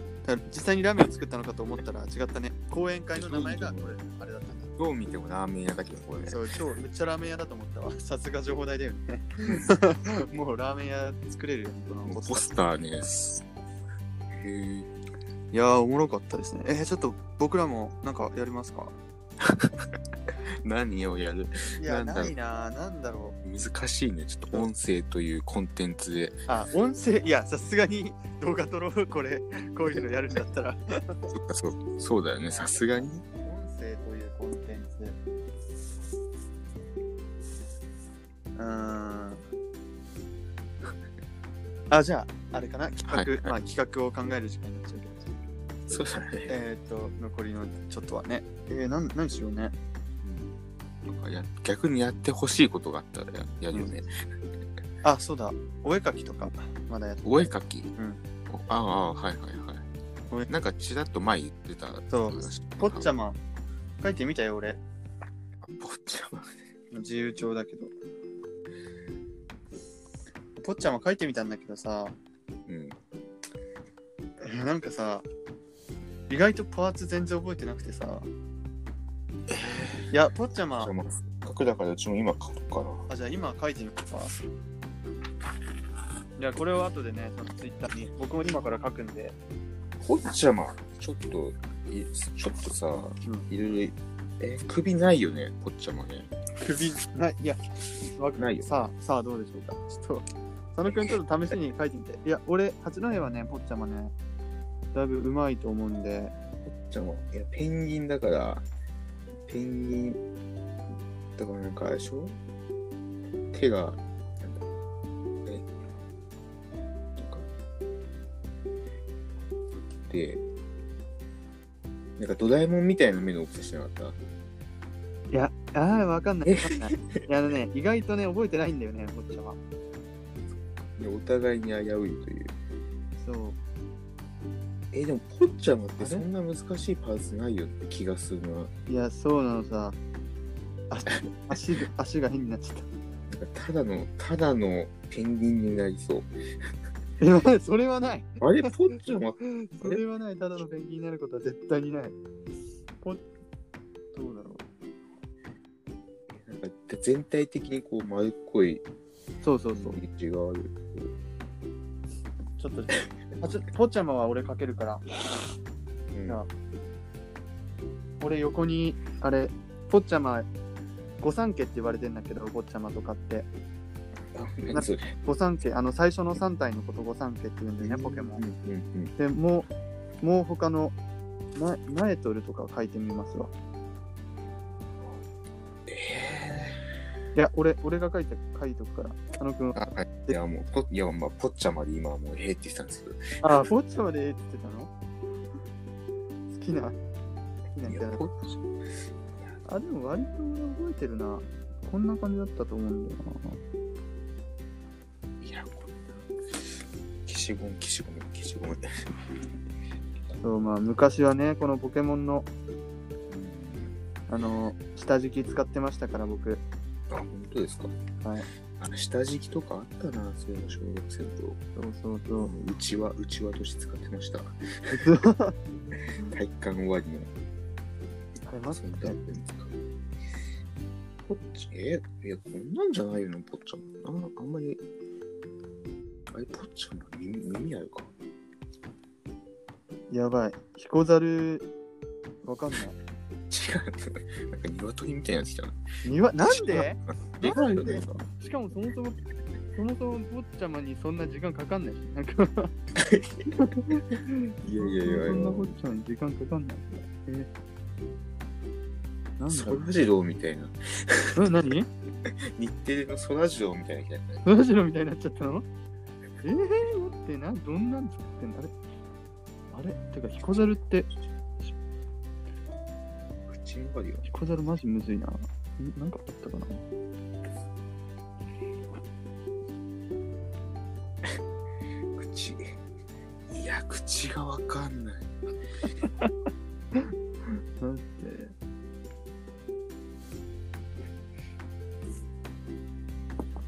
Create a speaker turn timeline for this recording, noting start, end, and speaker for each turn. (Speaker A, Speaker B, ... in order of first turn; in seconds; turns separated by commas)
Speaker A: 0.2-4.7, Speaker B: 3.1-4.0, Speaker B: 4.8-6.4, Speaker A: 6.2-12.4, Speaker B: 9.4-9.7, Speaker B: 12.0-13.4, Speaker B: 14.3-14.9, Speaker A: 15.5-18.9, Speaker B: 19.4-19.9, Speaker B: 20.6-22.3, Speaker A: 21.8-23.4, Speaker B: 23.4-26.3, Speaker A: 26.5-31.3, Speaker B: 31.3-33.2, Speaker A: 32.5-35.2, Speaker A: 38.5-39.4, Speaker A: 41.9-45.3, Speaker B: 43.1-43.5, Speaker B: 45.9-46.5, Speaker A: 46.5-49.7, Speaker B: 50.2-50.5, Speaker B: 51.1-54.1, Speaker A: 55.0-58.2, Speaker B: 57.2-57.9, Speaker B: 58.5-59.8, Speaker B: 60.5-63.1, Speaker A: 62.1-63.4, Speaker A: 64.0-64.8, Speaker B: 65.6-66.6, Speaker A: 66.9-67.9, Speaker A: 70.6-72.1, Speaker B: 72.7-73.0, Speaker A: 74.4-75.2, Speaker A: 76.3-78.3, Speaker B: 79.5-80.0, Speaker A: 80.1-80.9, Speaker B: 80.8-83.0, Speaker A: 83.1-84.4, Speaker A: 86.4-89.3, Speaker B: 90.0-96.3, Speaker A: 96.6-97.6, Speaker A: 98.1-104.1, Speaker B: 98.3-98.8, Speaker A: 104.9-106.3, Speaker B: 106.7-108.6, Speaker B: 109.5-110.2, Speaker B: 111.3-112.3, Speaker B: 113.5-114.6, Speaker B: 117.2-117.5, Speaker B: 119.7-120.4, Speaker B: 122.2-124.2, Speaker A: 125.3-129.6, Speaker B: 126.4-127.2, Speaker B: 130.6-132.5, Speaker A: 133.2-133.6, Speaker B: 134.9-138.7, Speaker A: 136.0-136.3, Speaker A: 138.9-140.0, Speaker A: 140.9-142.9, Speaker B: 143.3-146.3, Speaker A: 147.2-148.4, Speaker B: 148.4-150.0, Speaker A: 149.8-152.2, Speaker A: 154.1-154.6, Speaker B: 156.3-158.8, Speaker A: 159.4-160.0, Speaker B: 159.7-161.1, Speaker A: 162.6-165.1, Speaker B: 166.1-166.4, Speaker A: 168.2-170.5, Speaker A: 171.2-173.5, Speaker B: 174.3-175.1, Speaker A: 174.7-178.4, Speaker B: 177.8-179.1, Speaker A: 179.2-179.7, Speaker A: 180.2-180.9, Speaker A: 181.6-183.5, Speaker B: 185.9-186.8, Speaker A: 187.3-190.4, Speaker B: 189.7-193.3, Speaker A: 193.4-194.9, Speaker A: 196.5-197.0, Speaker A: 197.8-198.2, Speaker B: 197.8-198.6, Speaker A: 199.7-203.6, Speaker B: 205.4-208.8, Speaker A: 210.4-212.5, Speaker B: 213.3-213.9, Speaker A: 214.3-216.6, Speaker B: 217.1-217.9, Speaker B: 218.8-221.6, Speaker A: 221.8-222.5, Speaker B: 222.4-225.0, Speaker A: 224.9-225.5, Speaker B: 226.3-227.3, Speaker A: 228.5-229.2, Speaker B: 228.7-229.7, Speaker B: 231.3-234.8, Speaker B: 236.3-238.1, Speaker A: 240.1-241.7, Speaker A: 242.4-243.0, Speaker B: 243.5-245.8, Speaker A: 246.0-249.2, Speaker B: 246.5-248.2, Speaker A: 249.7-252.7, Speaker B: 253.0-254.0, Speaker A: 253.5-257.5, Speaker B: 254.6-255.7, Speaker A: 259.4-259.9, Speaker B: 259.5-261.4, Speaker A: 261.4-261.9, Speaker B: 262.3-264.4, Speaker A: 264.4-265.6, Speaker A: 266.4-268.7, Speaker A: 269.7-271.1, Speaker B: 273.5-274.3, Speaker A: 274.2-276.8, Speaker B: 282.1-282.8, Speaker B: 283.5-285.3, Speaker A: 286.0-286.3, Speaker A: 287.8-288.5